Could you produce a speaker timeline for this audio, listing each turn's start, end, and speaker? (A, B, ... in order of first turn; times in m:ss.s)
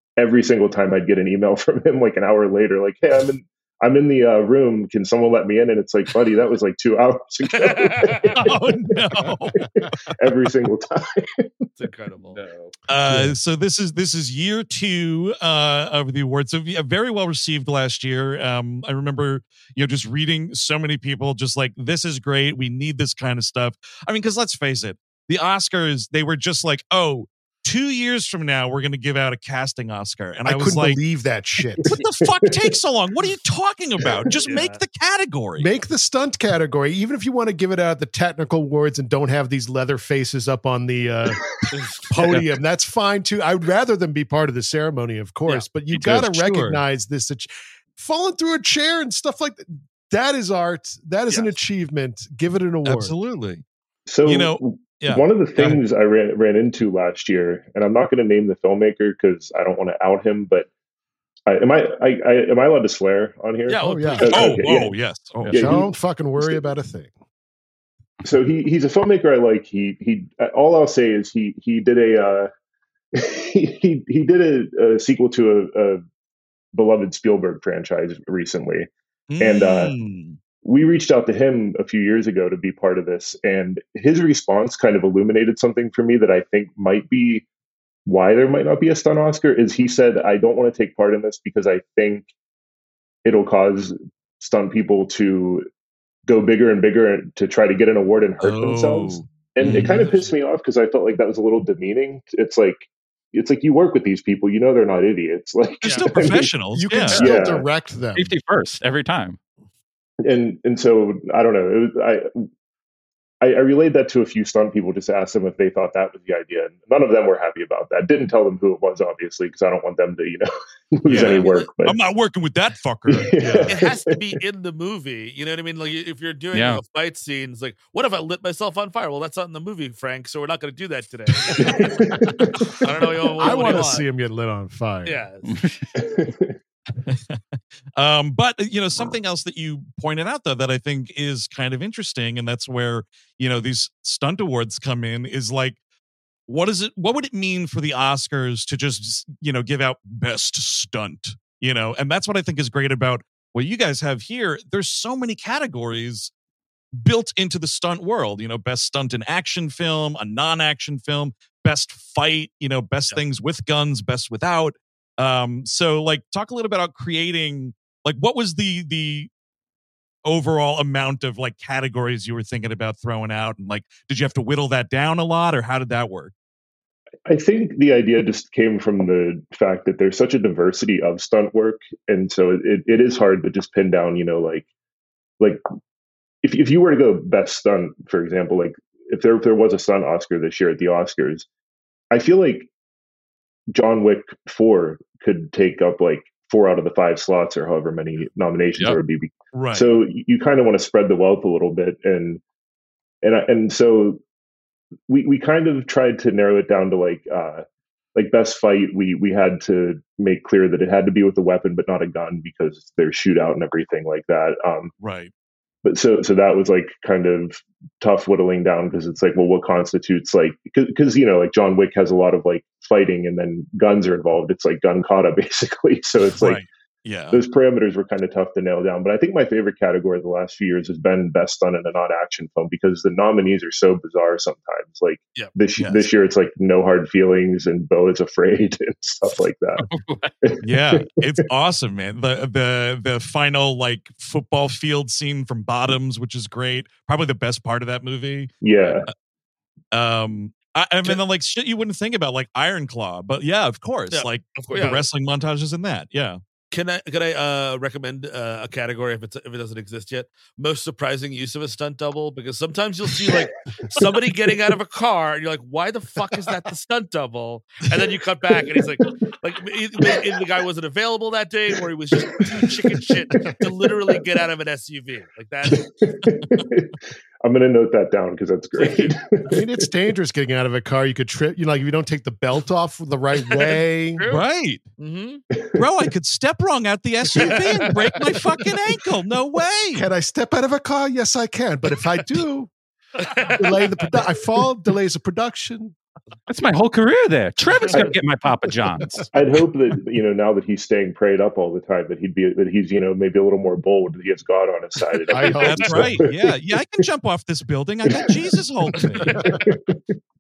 0:00.2-0:08.6 A
0:07.6-0:08.5 B
0:08.3-0:09.7 C
0:09.2-0:11.7 A
0:11.8-0:12.4 B
0:12.4-0:12.7 D
0:12.9-0:31.0 C
0:13.1-0:13.3 E
0:30.4-0:31.9 E
0:31.8-0:32.7 A
0:31.9-0:35.7 C
0:34.4-0:34.8 B
0:35.6-0:41.4 E
0:41.4-0:41.7 A
0:41.7-0:42.1 B
0:42.1-0:53.1 E
0:45.9-0:46.8 C
0:51.3-0:51.6 B
0:52.8-0:53.6 C
0:54.1-1:00.7 A
0:54.2-0:55.8 C
1:01.5-1:04.9 A
1:03.7-1:04.6 B
1:03.8-1:04.5 E
1:04.3-1:05.8 C
1:05.5-1:06.6 A
1:05.5-1:07.2 E
1:08.2-1:12.5 A
1:13.1-1:16.0 A
1:16.7-1:18.9 A
1:19.3-1:20.4 C
1:19.4-1:20.0 A
1:20.6-1:27.4 A
1:28.1-1:32.3 A
1:33.2-1:35.7 A
1:36.3-1:46.5 A
1:38.4-1:40.2 C
1:45.8-1:47.3 C
1:46.8-1:48.3 E
1:47.2-1:47.7 A
1:48.2-1:49.4 D
1:50.2-1:52.3 A
1:53.4-2:02.0 A
2:01.1-2:01.7 B
2:01.1-2:03.8 C
2:03.1-2:04.2 A
2:03.7-2:12.1 B
2:06.5-2:06.8 D
2:11.5-2:13.7 A
2:12.8-2:14.1 B
2:13.4-2:15.2 E
2:15.0-2:15.6 B
2:15.4-2:15.9 D
2:16.0-2:16.6 A
2:17.0-2:25.8 C
2:26.5-2:36.3 C
2:37.0-2:49.3 C
2:50.2-2:56.3 C
2:57.3-3:04.7 A
3:06.4-3:11.5 A
3:12.1-3:12.7 A
3:13.7-3:22.4 A
3:19.5-3:19.9 C
3:23.2-3:24.2 A
3:25.1-3:27.6 A
3:28.2-3:34.9 A
3:35.0-3:35.3 C
3:35.8-3:46.6 A
3:46.4-3:47.4 C
3:47.3-3:59.8 A
3:55.8-3:56.1 C
3:59.8-4:00.3 D
4:00.4-4:01.3 A
4:00.6-4:09.1 C
4:08.6-4:09.1 A
4:09.9-4:16.4 C
4:14.1-4:15.0 B
4:16.7-4:35.9 B
4:32.3-4:34.2 A
4:35.7-4:39.7 A
4:36.4-4:36.7 C
4:38.8-4:39.1 B
4:39.5-4:44.2 E
4:43.7-4:44.4 B
4:44.3-4:44.9 C
4:45.0-4:45.4 B
4:45.5-4:45.8 A
4:45.8-4:50.1 C
4:47.4-4:47.9 B
4:49.9-4:52.7 E
4:53.2-4:54.1 B
4:53.6-4:56.0 E
4:56.5-4:59.2 D
4:57.8-4:58.1 B
4:57.9-4:58.2 A
4:59.3-5:06.4 A
5:05.3-5:06.1 E
5:05.4-5:05.9 B
5:05.6-5:09.5 C
5:08.1-5:08.3 A
5:09.2-5:09.6 E
5:09.3-5:10.0 A